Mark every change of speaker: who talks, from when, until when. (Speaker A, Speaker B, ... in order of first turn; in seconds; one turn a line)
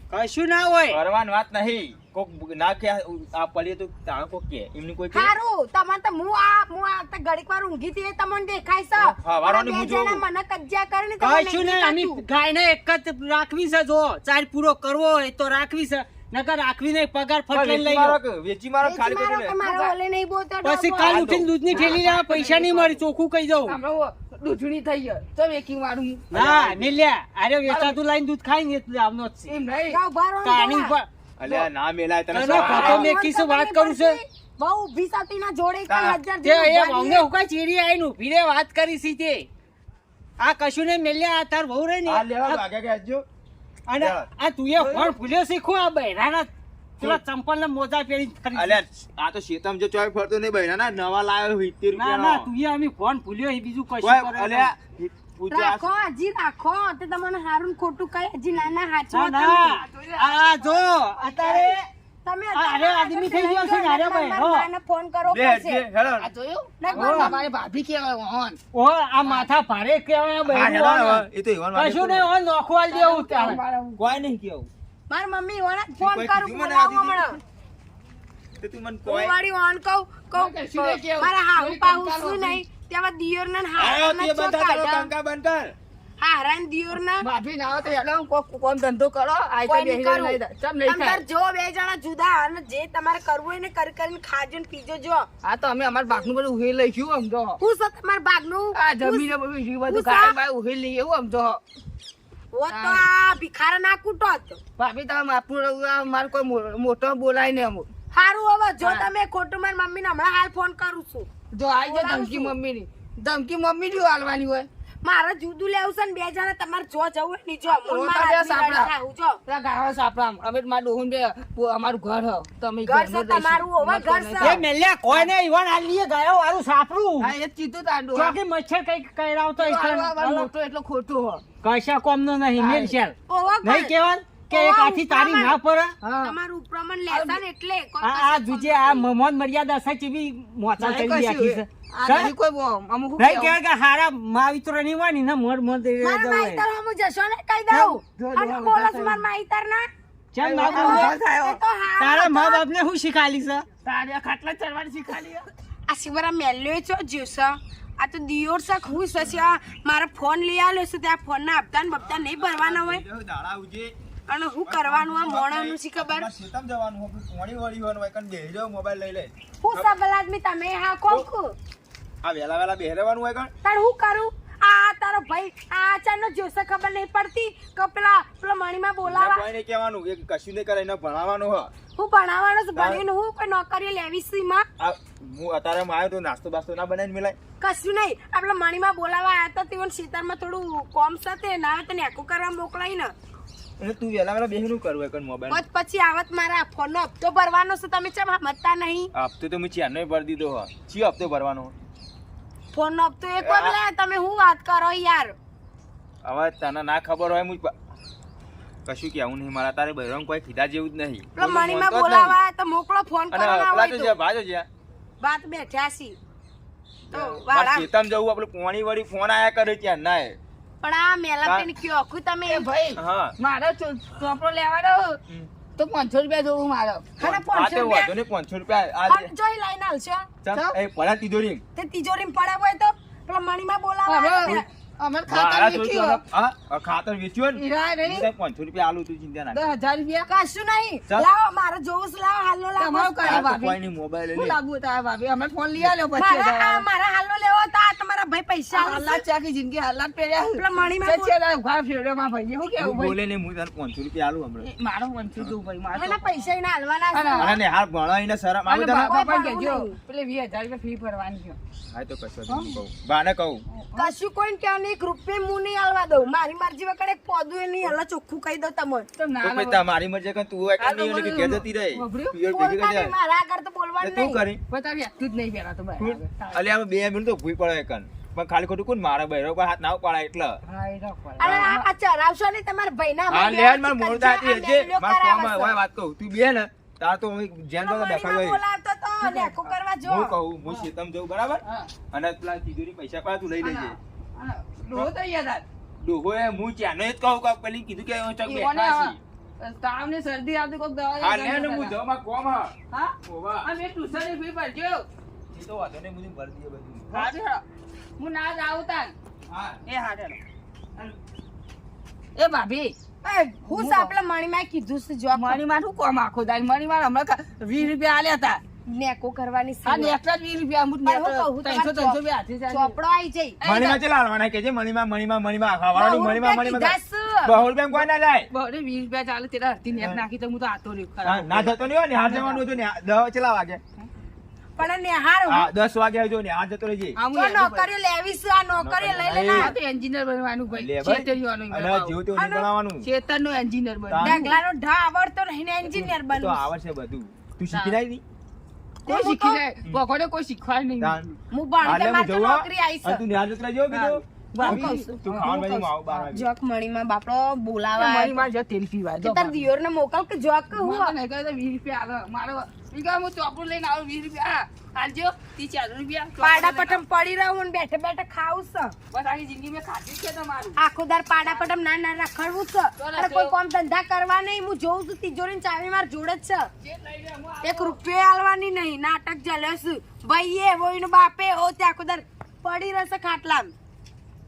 Speaker A: 0.1-1.0
Speaker B: 0.9-5.3
Speaker C: 5.1-12.2
Speaker B: 9.0-10.2
Speaker A: 11.2-18.2
Speaker B: 17.5-19.6
Speaker C: 18.8-21.3
Speaker D: 19.6-19.9
Speaker A: 20.6-23.8
Speaker B: 21.0-21.9
Speaker D: 21.7-23.0
Speaker D: 23.6-26.3
Speaker A: 26.3-29.5
Speaker B: 26.3-26.9
Speaker D: 27.6-28.0
Speaker D: 29.5-30.0
Speaker C: 29.9-30.9
Speaker A: 30.4-31.5
Speaker B: 31.4-33.1
Speaker A: 32.3-34.2
Speaker C: 32.4-37.3
Speaker B: 35.9-36.2
Speaker A: 36.4-39.5
Speaker A: 40.4-42.6
Speaker B: 42.0-43.2
Speaker A: 43.9-48.8
Speaker B: 44.0-45.1
Speaker B: 48.5-52.5
Speaker A: 51.9-54.7
Speaker B: 54.0-55.9
Speaker C: 55.5-59.8
Speaker A: 59.1-61.9
Speaker D: 59.6-60.9
Speaker C: 61.4-61.7
Speaker C: 62.2-65.8
Speaker A: 62.5-64.7
Speaker B: 65.3-66.3
Speaker D: 66.2-68.6
Speaker C: 66.8-67.4
Speaker A: 66.9-67.3
Speaker A: 68.7-73.6
Speaker B: 70.4-72.3
Speaker D: 72.9-74.0
Speaker B: 74.0-74.7
Speaker C: 75.1-77.4
Speaker B: 76.0-77.2
Speaker B: 78.6-79.3
Speaker C: 79.0-85.1
Speaker D: 80.3-82.6
Speaker B: 83.8-85.7
Speaker C: 86.2-87.2
Speaker D: 87.2-91.2
Speaker C: 89.7-95.3
Speaker D: 95.4-97.6
Speaker C: 97.6-99.3
Speaker D: 98.7-101.6
Speaker C: 99.9-100.3
Speaker C: 102.5-104.6
Speaker D: 102.7-103.0
Speaker D: 104.8-107.9
Speaker C: 108.1-111.3
Speaker D: 111.5-114.7
Speaker C: 111.8-112.5
Speaker C: 115.0-119.4
Speaker D: 117.7-118.9
Speaker D: 119.5-125.2
Speaker C: 122.8-124.6
Speaker A: 124.4-127.3
Speaker D: 127.2-128.4
Speaker A: 128.1-130.5
Speaker D: 129.6-131.4
Speaker A: 131.6-135.9
Speaker D: 132.6-132.9
Speaker C: 133.3-133.9
Speaker C: 134.5-135.6
Speaker D: 136.0-136.3
Speaker C: 136.2-139.1
Speaker D: 137.1-137.4
Speaker A: 138.0-142.3
Speaker D: 140.8-143.6
Speaker C: 142.0-142.3
Speaker A: 143.2-146.6
Speaker C: 146.0-149.9
Speaker D: 147.7-149.2
Speaker A: 150.3-151.1
Speaker D: 150.4-151.6
Speaker C: 150.7-152.6
Speaker A: 152.0-153.7
Speaker D: 153.8-155.4
Speaker C: 155.9-163.0
Speaker B: 162.1-163.9
Speaker C: 164.3-166.3
Speaker B: 164.7-169.9
Speaker C: 169.6-171.5
Speaker B: 172.2-173.5
Speaker C: 173.6-179.5
Speaker B: 179.0-181.7
Speaker C: 181.9-184.7
Speaker B: 182.7-183.0
Speaker B: 184.8-187.4
Speaker C: 187.6-193.1
Speaker B: 193.8-195.6
Speaker C: 195.5-199.1
Speaker B: 199.1-201.7
Speaker C: 202.7-205.3
Speaker B: 203.4-203.8
Speaker B: 206.2-207.7
Speaker B: 208.8-212.4
Speaker C: 211.3-214.1
Speaker B: 213.3-214.7
Speaker C: 215.2-216.2
Speaker C: 217.1-217.9
Speaker B: 217.1-220.4
Speaker C: 220.8-222.7
Speaker D: 222.5-225.2
Speaker B: 223.0-223.3
Speaker D: 225.8-227.1
Speaker C: 227.2-228.1
Speaker B: 227.2-229.3
Speaker C: 229.1-230.3
Speaker B: 230.4-231.6
Speaker C: 231.8-234.6
Speaker D: 234.1-236.2
Speaker B: 235.3-239.6
Speaker D: 237.5-238.3
Speaker D: 239.5-240.3
Speaker C: 240.2-243.4
Speaker D: 242.8-243.8
Speaker B: 243.2-244.6
Speaker D: 244.3-246.9
Speaker C: 246.1-249.2
Speaker D: 248.7-253.2
Speaker C: 250.6-251.3
Speaker B: 252.8-254.7
Speaker D: 254.6-256.4
Speaker C: 255.9-257.6
Speaker D: 257.1-257.5
Speaker B: 257.4-259.1
Speaker D: 258.7-261.6
Speaker C: 259.0-259.9
Speaker B: 261.9-263.6
Speaker D: 262.5-262.8
Speaker D: 263.7-264.1
Speaker C: 263.9-269.1
Speaker D: 269.2-269.8
Speaker B: 269.4-273.1
Speaker D: 270.8-272.4
Speaker C: 272.5-274.4
Speaker B: 274.0-274.6
Speaker D: 274.7-276.6
Speaker B: 276.0-280.6
Speaker D: 280.6-281.9
Speaker C: 281.4-285.8
Speaker B: 283.3-288.6
Speaker C: 287.8-290.3
Speaker D: 289.2-289.6
Speaker B: 290.0-293.9
Speaker D: 291.6-291.9
Speaker D: 293.6-295.6
Speaker B: 296.0-299.2
Speaker D: 298.4-301.9
Speaker B: 301.2-302.7
Speaker D: 302.9-305.1
Speaker B: 303.2-303.7
Speaker B: 305.5-307.3
Speaker D: 307.1-307.6
Speaker D: 308.2-309.1
Speaker B: 309.5-309.8
Speaker D: 309.9-310.4
Speaker D: 312.4-313.0
Speaker C: 313.2-315.6
Speaker D: 313.7-314.1
Speaker D: 315.3-318.6
Speaker C: 318.9-320.1
Speaker D: 319.8-322.9
Speaker C: 321.0-323.6
Speaker D: 323.6-324.0
Speaker B: 323.6-328.5
Speaker C: 325.9-327.6
Speaker D: 327.9-332.6
Speaker B: 331.2-333.8
Speaker C: 334.8-335.7
Speaker B: 335.5-337.2
Speaker D: 337.1-337.9
Speaker C: 337.3-339.7
Speaker B: 338.8-339.7
Speaker D: 339.5-342.1
Speaker B: 340.7-343.1
Speaker C: 342.3-342.7
Speaker D: 343.0-344.6
Speaker B: 344.1-344.5
Speaker C: 344.2-346.6
Speaker B: 345.9-348.2
Speaker C: 349.1-349.6
Speaker D: 349.1-351.2
Speaker B: 351.0-356.5
Speaker C: 351.5-353.2
Speaker D: 353.9-355.5
Speaker C: 354.6-358.4
Speaker D: 356.1-356.3
Speaker D: 358.0-359.6
Speaker C: 359.2-361.1
Speaker D: 360.8-367.0
Speaker C: 366.4-368.9
Speaker D: 369.1-370.8
Speaker C: 370.8-376.7
Speaker D: 373.0-373.5
Speaker D: 376.8-377.9
Speaker C: 377.6-383.7